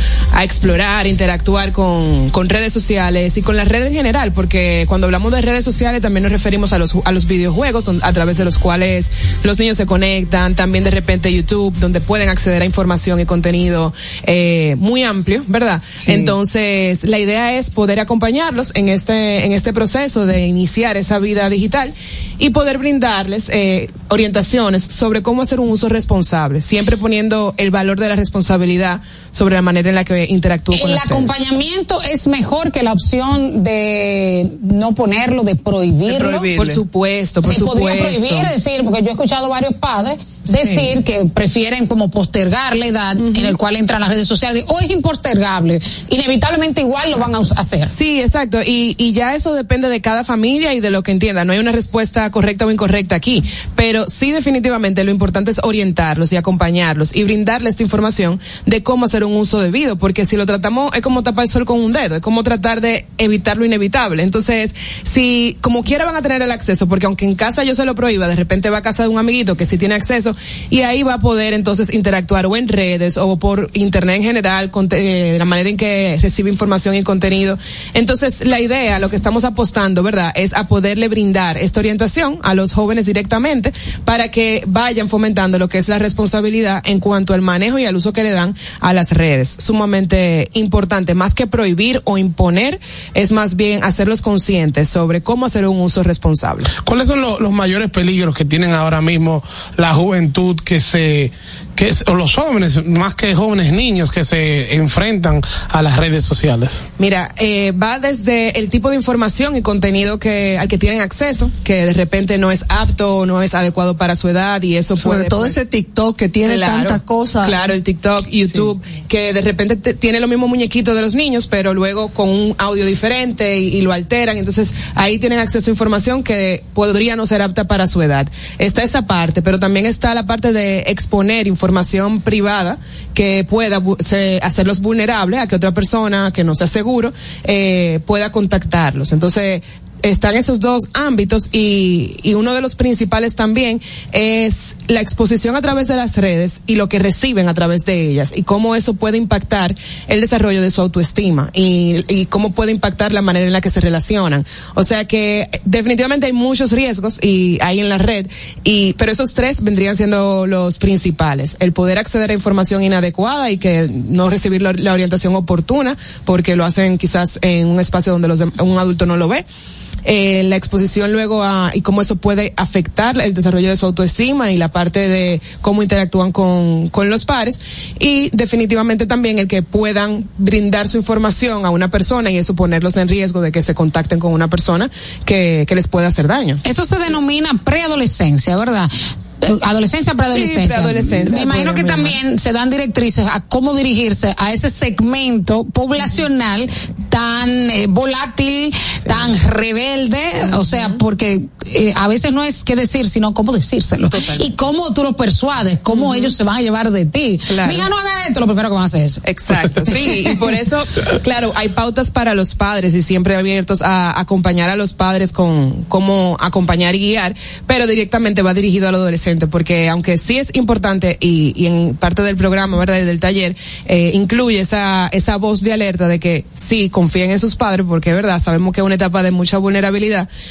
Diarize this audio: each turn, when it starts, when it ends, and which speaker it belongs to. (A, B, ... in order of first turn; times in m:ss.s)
0:00.3-0:31.4 A
0:16.0-0:16.3 B
0:30.7-0:36.5 C
0:36.1-0:36.8 B
0:36.5-0:38.5 A
0:37.4-0:47.9 C
0:40.6-0:40.8 A
0:43.2-0:43.5 A
0:47.9-1:36.7 A
1:36.8-1:46.8 D
1:47.0-1:55.6 A
1:55.0-1:57.8 B
1:56.4-2:49.4 A
1:58.4-1:58.7 B
2:50.0-3:06.6 A
3:06.6-3:08.9 C
3:09.4-3:29.2 C
3:10.3-3:12.2 A
3:20.6-3:21.0 A
3:24.1-3:24.4 A
3:25.9-3:26.4 A
3:27.5-3:27.9 A
3:29.2-3:50.3 A
3:29.8-3:30.3 C